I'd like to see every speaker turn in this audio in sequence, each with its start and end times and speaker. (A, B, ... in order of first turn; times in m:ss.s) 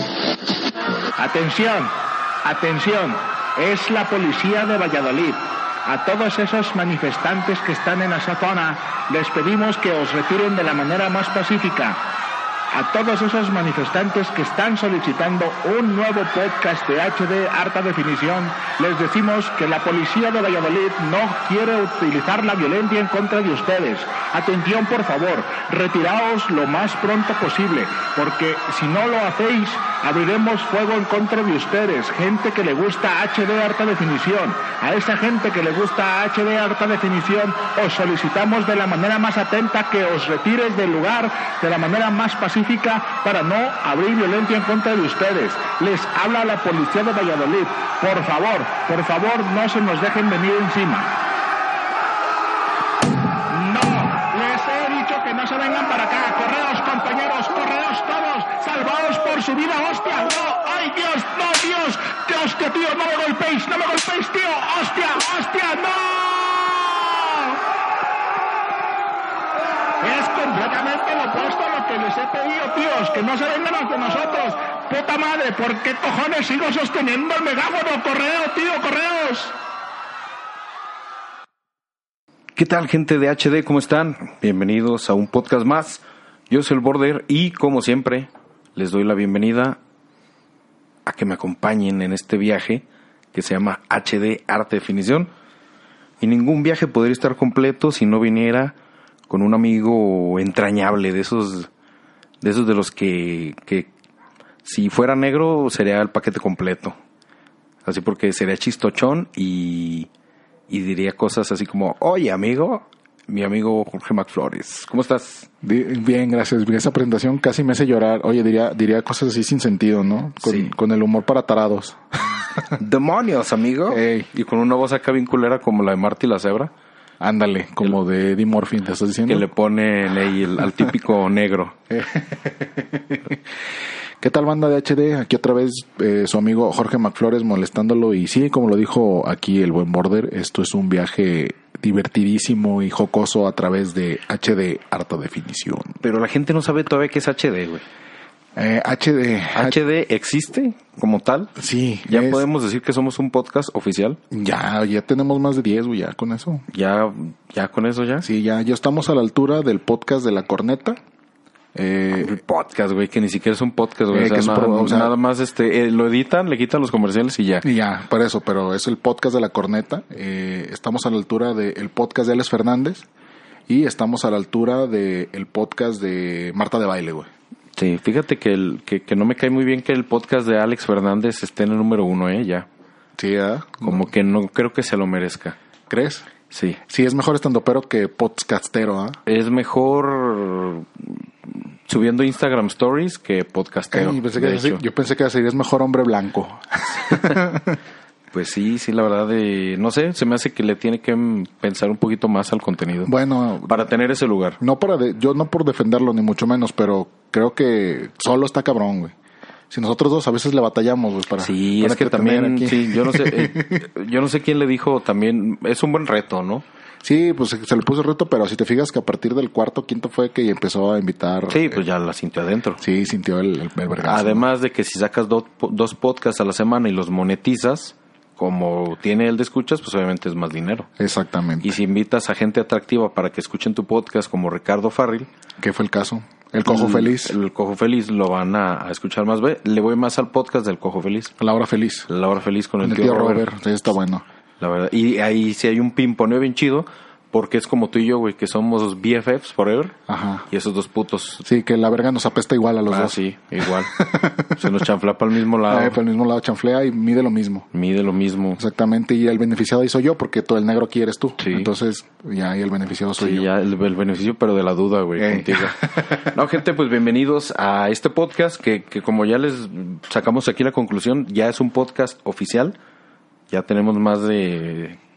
0:01.2-0:01.9 A
0:02.4-0:12.0 A
0:12.7-0:51.1 A
0:53.5-1:07.6 A
1:10.0-1:19.5 A
1:22.6-1:29.8 B
1:31.1-1:35.3 B
1:36.2-1:38.8 B
1:39.3-1:41.7 B
1:42.4-1:43.9 B
1:44.6-1:47.0 B
1:47.8-1:50.1 B
1:50.7-1:55.5 B
1:55.6-2:02.0 C
2:00.4-2:00.7 B
2:02.7-2:06.7 B
2:03.9-2:04.3 C
2:07.2-2:09.5 C
2:09.3-2:11.8 B
2:11.9-2:13.4 C
2:14.2-2:26.0 C
2:26.0-2:27.8 B
2:28.6-2:29.8 C
2:29.5-2:31.6 B
2:31.6-2:32.4 C
2:32.1-2:34.2 B
2:34.3-2:36.6 C
2:36.7-2:38.3 B
2:38.2-2:41.0 C
2:41.8-2:42.4 C
2:42.2-2:47.7 B
2:44.1-2:45.1 C
2:47.6-2:53.1 C
2:53.7-2:57.3 C
2:57.8-3:02.7 B
3:03.2-3:04.0 C
3:03.8-3:05.6 B
3:05.9-3:06.3 C
3:06.5-3:06.8 B
3:06.9-3:09.2 C
3:09.3-3:14.8 B
3:13.9-3:17.8 C
3:17.1-3:17.4 B
3:18.3-3:23.1 B
3:23.1-3:23.8 C
3:23.7-3:24.6 B
3:24.6-3:29.1 C
3:29.7-3:33.8 C
3:31.4-3:36.6 B
3:37.0-3:41.8 C
3:41.5-3:42.8 B
3:42.8-3:44.5 C
3:44.0-3:50.9 B
3:51.0-3:51.8 C
3:51.6-3:55.3 B
3:55.6-3:57.4 C
3:56.6-4:01.3 B
4:01.4-4:02.1 C
4:02.1-4:03.4 B
4:02.8-4:04.2 C
4:04.6-4:10.0 B
4:10.1-4:10.5 C
4:10.5-4:11.4 B
4:11.4-4:14.8 C
4:12.9-4:16.0 B
4:15.7-4:17.7 C
4:17.7-4:18.6 B
4:18.6-4:23.5 C
4:21.4-4:21.7 B
4:23.2-4:32.8 B
4:25.2-4:26.3 C
4:33.5-4:35.0 B